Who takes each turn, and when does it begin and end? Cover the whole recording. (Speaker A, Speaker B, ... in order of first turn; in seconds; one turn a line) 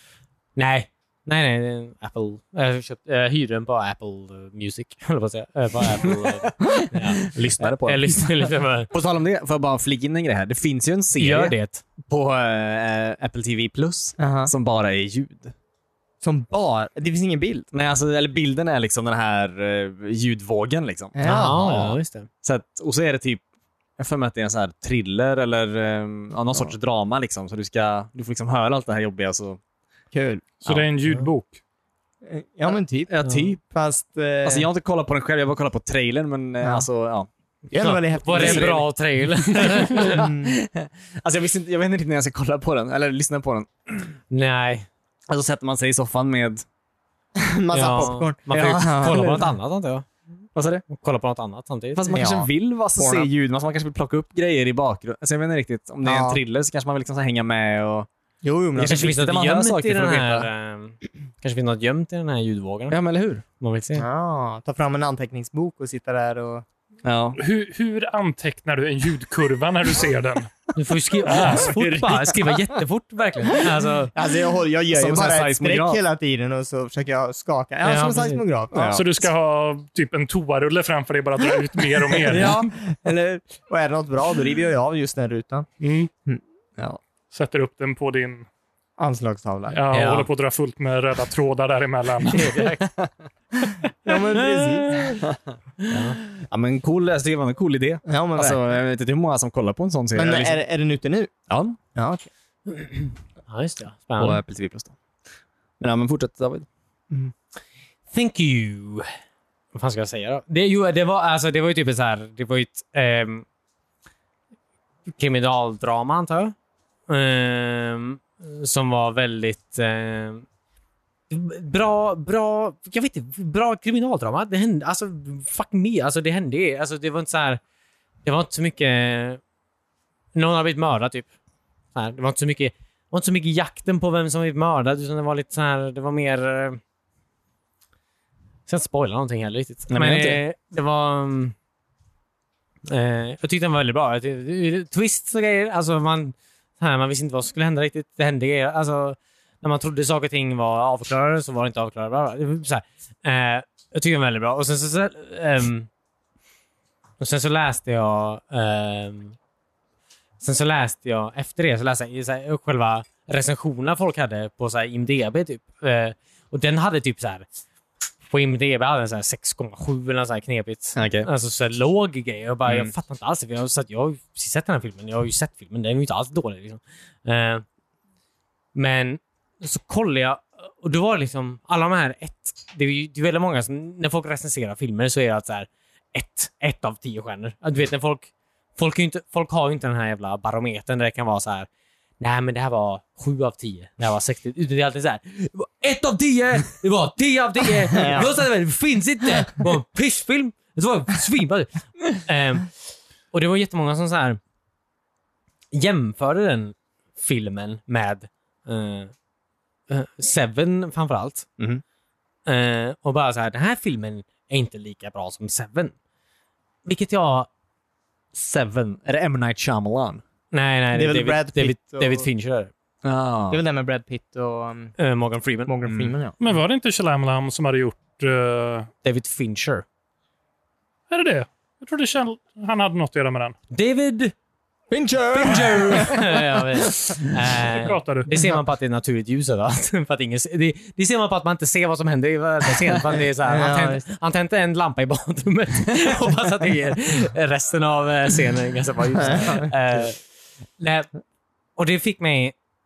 Speaker A: 0.6-8.9
Speaker B: 7.2-8.2
Speaker B: 8.9-15.5
Speaker A: 11.2-11.8
Speaker C: 14.2-14.5
Speaker C: 16.2-17.7
Speaker B: 17.7-23.4
Speaker C: 21.1-21.6
Speaker A: 21.2-22.3
Speaker B: 24.0-29.6
Speaker C: 30.1-30.5
Speaker D: 30.6-31.6
Speaker C: 32.2-34.7
Speaker B: 33.1-33.6
Speaker B: 34.4-37.3
Speaker C: 37.7-38.9
Speaker A: 37.7-40.3
Speaker B: 38.3-38.8
Speaker C: 39.6-40.6
Speaker B: 39.9-44.1
Speaker A: 44.3-44.9
Speaker B: 45.3-46.6
Speaker C: 47.4-49.2
Speaker A: 47.7-50.1
Speaker B: 48.5-49.5
Speaker B: 50.5-50.8
Speaker A: 50.9-52.2
Speaker B: 51.9-58.1
Speaker C: 52.1-53.3
Speaker C: 56.0-56.4
Speaker C: 58.4-59.1
Speaker B: 58.7-60.5
Speaker A: 58.8-63.0
Speaker B: 62.9-63.4
Speaker A: 63.6-64.0
Speaker C: 64.0-66.6
Speaker B: 67.0-67.4
Speaker D: 67.4-70.5
Speaker A: 70.7-74.1
Speaker D: 71.3-71.8
Speaker C: 71.8-72.5
Speaker C: 74.1-79.2
Speaker B: 74.9-76.0
Speaker A: 77.8-78.4
Speaker B: 78.7-79.0
Speaker D: 78.9-82.7
Speaker C: 82.2-85.7
Speaker D: 85.8-86.1
Speaker C: 86.2-87.0
Speaker D: 87.3-88.5
Speaker C: 89.0-89.8
Speaker D: 89.7-92.7
Speaker A: 89.9-90.3
Speaker A: 92.3-92.9
Speaker C: 94.0-95.2
Speaker A: 94.1-95.2
Speaker A: 95.8-96.2
Speaker B: 95.9-100.6
Speaker C: 98.0-98.6
Speaker C: 100.1-101.3
Speaker B: 101.5-101.8
Speaker C: 101.9-102.3
Speaker A: 102.7-104.4
Speaker B: 104.2-105.0
Speaker B: 105.8-106.7
Speaker A: 108.1-109.1
Speaker A: 109.7-113.4
Speaker A: 115.1-116.5
Speaker A: 117.1-120.5
Speaker A: 121.3-127.6
Speaker A: 128.2-129.4
Speaker A: 130.3-131.3
Speaker A: 131.9-136.8
Speaker A: 138.7-141.5
Speaker B: 139.9-140.4
Speaker A: 142.8-155.9
Speaker A: 157.2-159.3
Speaker A: 160.4-167.4
Speaker A: 168.3-177.6
Speaker B: 170.9-171.3
Speaker B: 172.7-172.9
Speaker A: 178.7-191.7
Speaker A: 192.2-202.8
Speaker C: 197.9-198.3
Speaker A: 203.3-204.4
Speaker A: 205.7-209.1
Speaker A: 209.9-211.5
Speaker A: 212.4-215.9
Speaker A: 216.8-217.5
Speaker B: 218.3-220.2
Speaker A: 220.5-222.7
Speaker C: 220.9-222.3
Speaker B: 223.0-223.6
Speaker C: 223.5-225.0
Speaker A: 225.0-225.7
Speaker C: 225.7-226.3
Speaker B: 225.8-226.1
Speaker D: 226.4-228.9
Speaker A: 229.0-229.8
Speaker D: 231.1-233.6
Speaker A: 233.7-234.3
Speaker C: 234.9-237.2
Speaker A: 235.3-250.2
Speaker D: 237.7-238.3
Speaker C: 243.4-244.1
Speaker C: 249.2-249.7
Speaker A: 250.8-251.1
Speaker A: 251.8-252.5